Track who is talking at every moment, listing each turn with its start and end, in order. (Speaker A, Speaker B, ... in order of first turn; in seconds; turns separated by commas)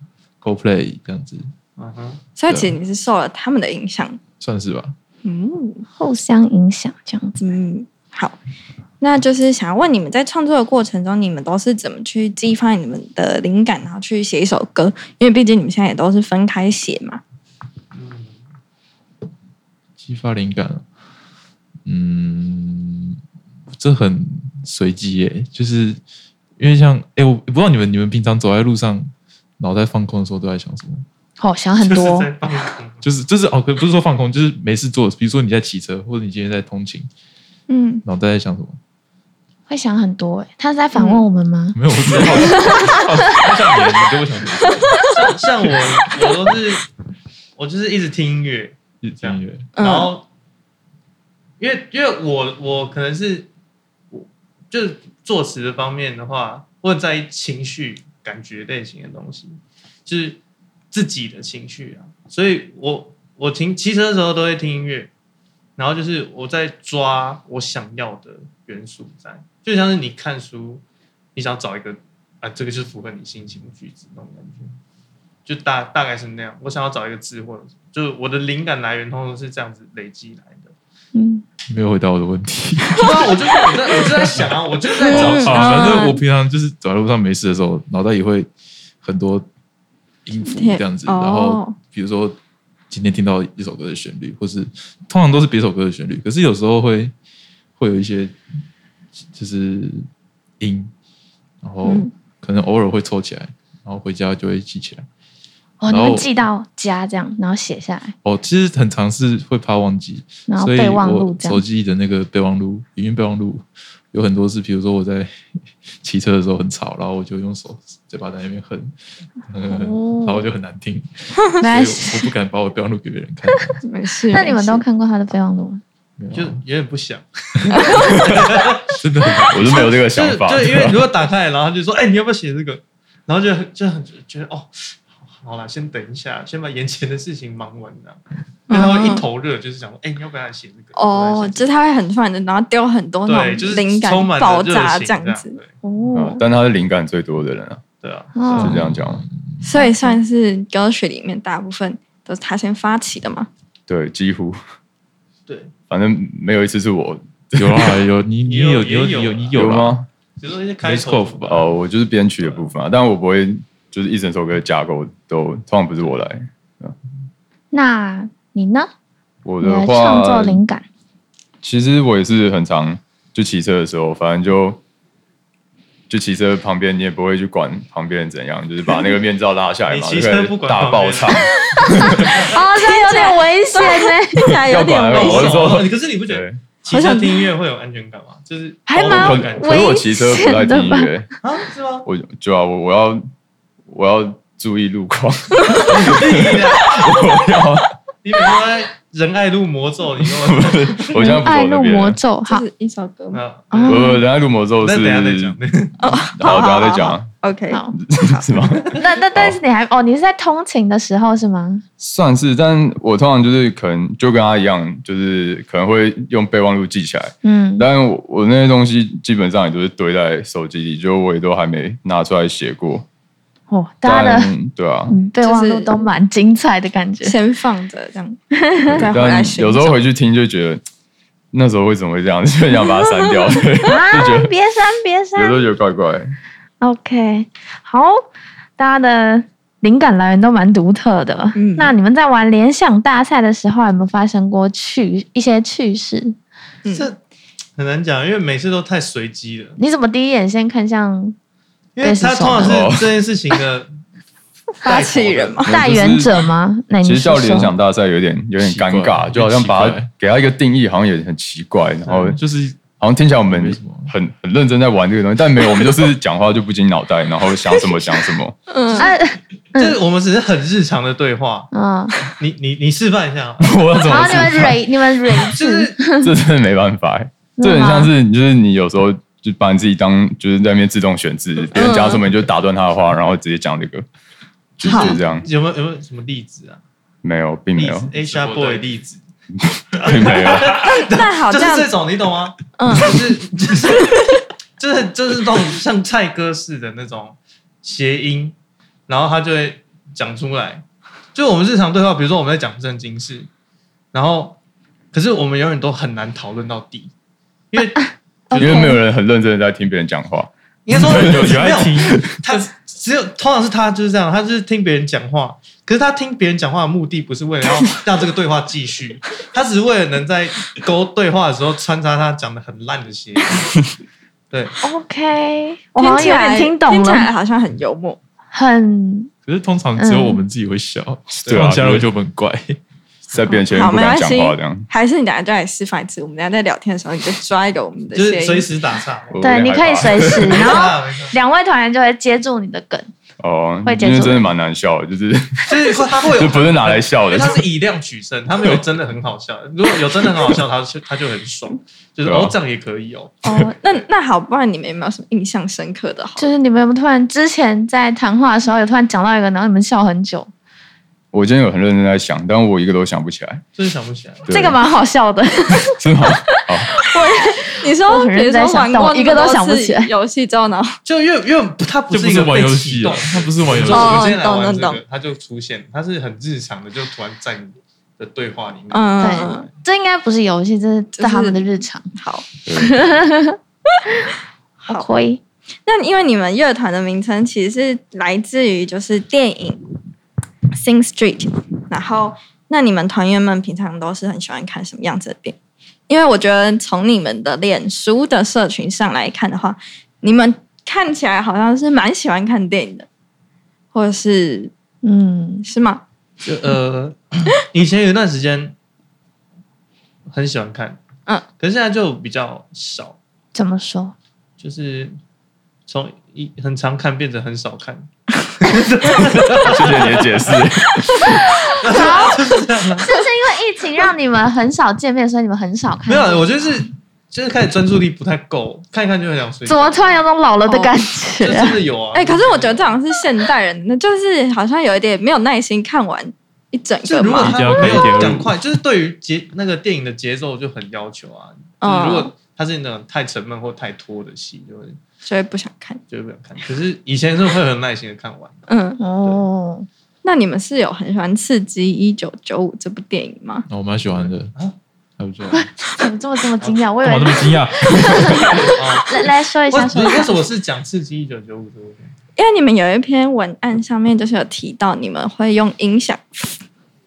Speaker A: 0.4-1.5, Speaker B: 1.8-2.2, Speaker C: 2.4-4.2, Speaker A: 2.5-2.8, Speaker A: 4.4-4.9, Speaker C: 5.2-5.8, Speaker D: 6.0-7.5, Speaker C: 7.4-8.4, Speaker C: 9.0-17.2, Speaker B: 17.9-18.4, Speaker A: 20.0-20.9, Speaker A: 21.9-23.2, Speaker A: 23.7-26.0, Speaker A: 26.6-31.1, Speaker D: 31.4-32.3, Speaker B: 31.8-33.0, Speaker A: 33.0-37.1, Speaker C: 37.7-38.0, Speaker A: 38.0-38.8, Speaker D: 39.7-41.8, Speaker C: 40.9-41.2, Speaker A: 41.7-45.1, Speaker B: 42.1-42.5, Speaker C: 42.5-42.9, Speaker D: 42.5-42.8, Speaker C: 44.8-45.0, Speaker B: 45.1-46.9, Speaker B: 47.6-50.2, Speaker A: 49.0-49.7, Speaker C: 49.8-50.1, Speaker B: 51.6-53.5, Speaker B: 54.1-60.4, Speaker B: 60.9-65.1, Speaker B: 65.8-70.8, Speaker B: 71.3-74.7, Speaker B: 75.5-80.7, Speaker D: 81.1-81.4, Speaker A: 81.7-84.5, Speaker B: 83.0-86.0, Speaker C: 85.0-86.2, Speaker A: 85.0-88.5, Speaker A: 89.0-89.5, Speaker A: 90.2-92.4, Speaker C: 90.4-91.8, Speaker A: 92.9-97.1, Speaker A: 97.8-98.3, Speaker A: 99.3-100.0, Speaker A: 100.6-100.9, Speaker A: 101.6-105.0, Speaker C: 101.8-102.1, Speaker D: 105.8-108.1, Speaker A: 105.9-106.3, Speaker A: 108.2-115.4, Speaker D: 110.5-111.6, Speaker A: 116.0-118.9, Speaker A: 119.5-123.8, Speaker D: 119.7-120.4, Speaker D: 121.6-122.3, Speaker C: 123.8-124.8, Speaker D: 124.3-125.8, Speaker A: 126.2-126.6, Speaker B: 126.3-141.7, Speaker A: 127.6-129.8, Speaker E: 129.5-131.0, Speaker C: 138.7-139.2, Speaker C: 140.9-145.6, Speaker B: 143.2-145.7, Speaker D: 145.8-146.4, Speaker E: 146.1-147.8, Speaker B: 148.0-148.6, Speaker D: 148.3-148.8, Speaker A: 148.5-149.7, Speaker E: 148.6-149.2, Speaker C: 149.6-153.5, Speaker D: 149.7-150.2, Speaker E: 153.9-154.6, Speaker B: 155.5-155.7, Speaker E: 155.9-158.0, Speaker A: 157.6-160.0, Speaker B: 158.5-159.6, Speaker E: 159.5-160.1, Speaker B: 160.4-161.6, Speaker A: 160.8-161.6, Speaker E: 161.5-166.9, Speaker B: 162.4-162.7, Speaker D: 167.7-168.9, Speaker E: 169.4-170.6, Speaker D: 169.6-170.8, Speaker E: 171.6-174.8, Speaker E: 176.1-182.4, Speaker B: 179.9-181.5, Speaker D: 181.9-184.5, Speaker C: 182.5-185.8, Speaker E: 184.6-186.6, Speaker B: 185.1-189.8, Speaker C: 186.9-187.5, Speaker D: 188.9-191.1, Speaker E: 189.0-191.3, Speaker B: 191.4-192.1, Speaker E: 192.0-193.3, Speaker E: 193.9-197.9, Speaker B: 195.7-197.3, Speaker B: 198.2-201.2, Speaker E: 200.4-202.2, Speaker D: 201.2-202.6, Speaker C: 202.4-203.4, Speaker B: 203.3-204.1, Speaker D: 203.7-204.2, Speaker E: 203.8-205.6, Speaker B: 204.8-206.1, Speaker C: 206.0-208.6, Speaker E: 206.3-207.3, Speaker D: 207.7-207.9, Speaker E: 208.1-209.6, Speaker D: 208.9-211.8, Speaker E: 212.0-223.1, Speaker D: 217.4-217.9, Speaker D: 223.7-224.5, Speaker E: 224.0-225.1, Speaker D: 225.1-227.3, Speaker C: 225.4-226.1, Speaker C: 227.2-230.0, Speaker D: 228.5-229.0, Speaker E: 228.9-230.8, Speaker E: 231.5-234.5, Speaker D: 233.8-235.6, Speaker E: 235.3-236.3, Speaker D: 236.8-238.2, Speaker D: 238.8-246.3, Speaker C: 241.5-241.9, Speaker B: 246.9-247.2, Speaker B: 247.8-249.8, Speaker D: 249.8-251.3, Speaker B: 251.9-253.9, Speaker D: 252.0-252.8, Speaker E: 252.6-253.1, Speaker C: 254.8-255.7, Speaker B: 254.8-255.7, Speaker E: 255.7-256.3, Speaker D: 255.7-257.7, Speaker E: 257.0-262.4, Speaker A: 258.6-260.1, Speaker A: 262.1-262.9, Speaker E: 262.9-268.6, Speaker A: 263.5-264.1, Speaker C: 268.7-269.1, Speaker D: 268.9-270.0, Speaker B: 269.7-271.7, Speaker D: 271.7-272.1, Speaker B: 272.3-274.5, Speaker E: 273.6-274.8, Speaker D: 274.1-276.3, Speaker B: 275.5-276.0, Speaker E: 276.2-284.1, Speaker D: 277.6-278.1, Speaker C: 281.7-282.2, Speaker E: 284.8-285.5, Speaker B: 284.8-286.8, Speaker C: 284.8-285.2, Speaker E: 287.2-288.1, Speaker B: 287.8-289.2, Speaker A: 288.2-288.9, Speaker E: 289.9-290.8, Speaker B: 289.9-294.2, Speaker C: 290.9-291.9, Speaker C: 292.8-293.2, Speaker B: 294.8-298.5, Speaker B: 299.1-300.8, Speaker B: 301.3-303.5, Speaker B: 304.1-304.6, Speaker B: 305.1-307.1, Speaker B: 307.7-308.9, Speaker D: 308.5-308.9, Speaker E: 308.5-311.7, Speaker B: 310.9-323.7, Speaker A: 310.9-312.7, Speaker B: 324.5-324.8, Speaker D: 324.8-327.3, Speaker C: 326.0-328.2, Speaker D: 328.5-329.3, Speaker A: 329.4-332.8, Speaker D: 330.0-330.4, Speaker E: 331.3-332.1, Speaker E: 333.3-334.9, Speaker C: 333.5-338.7, Speaker B: 338.1-339.5, Speaker E: 339.3-340.7, Speaker D: 339.4-343.1, Speaker B: 340.0-341.4, Speaker E: 343.4-347.6, Speaker D: 343.8-344.5, Speaker B: 345.7-354.0, Speaker E: 352.2-352.6, Speaker C: 353.4-356.5, Speaker D: 356.4-360.5, Speaker E: 361.3-363.6, Speaker B: 363.8-364.5, Speaker E: 364.4-364.8, Speaker D: 364.5-366.3, Speaker E: 366.0-366.9, Speaker D: 367.1-370.1, Speaker C: 367.1-370.9, Speaker B: 371.0-379.7, Speaker A: 372.1-374.3, Speaker C: 373.9-375.0, Speaker C: 378.9-379.7, Speaker D: 379.2-382.1, Speaker C: 381.1-381.6, Speaker C: 382.1-382.5, Speaker E: 382.6-383.0, Speaker D: 382.8-383.6, Speaker D: 384.8-385.4, Speaker C: 385.9-389.8, Speaker C: 390.7-395.6, Speaker C: 396.1-403.1, Speaker C: 403.9-404.7, Speaker D: 405.0-405.7, Speaker C: 405.6-406.0, Speaker B: 406.4-408.7, Speaker B: 410.3-411.0, Speaker B: 411.6-413.2, Speaker D: 413.5-414.1, Speaker B: 414.6-415.2, Speaker B: 415.9-420.7, Speaker E: 419.6-421.4, Speaker B: 421.8-423.1, Speaker D: 421.8-422.4, Speaker D: 423.0-426.8, Speaker B: 426.1-430.2, Speaker D: 429.7-431.8, Speaker C: 430.7-430.9, Speaker B: 431.4-433.0, Speaker C: 432.1-438.0, Speaker B: 437.0-445.0, Speaker A: 437.4-438.6, Speaker C: 441.8-442.3, Speaker C: 445.2-446.0, Speaker B: 446.1-448.6, Speaker C: 448.7-449.0, Speaker D: 449.0-449.9, Speaker C: 450.2-453.7, Speaker A: 453.7-454.5, Speaker B: 454.1-454.8, Speaker A: 455.2-455.7, Speaker D: 455.5-460.4, Speaker B: 456.6-456.9, Speaker A: 457.0-458.8, Speaker B: 458.6-462.1, Speaker C: 462.4-466.6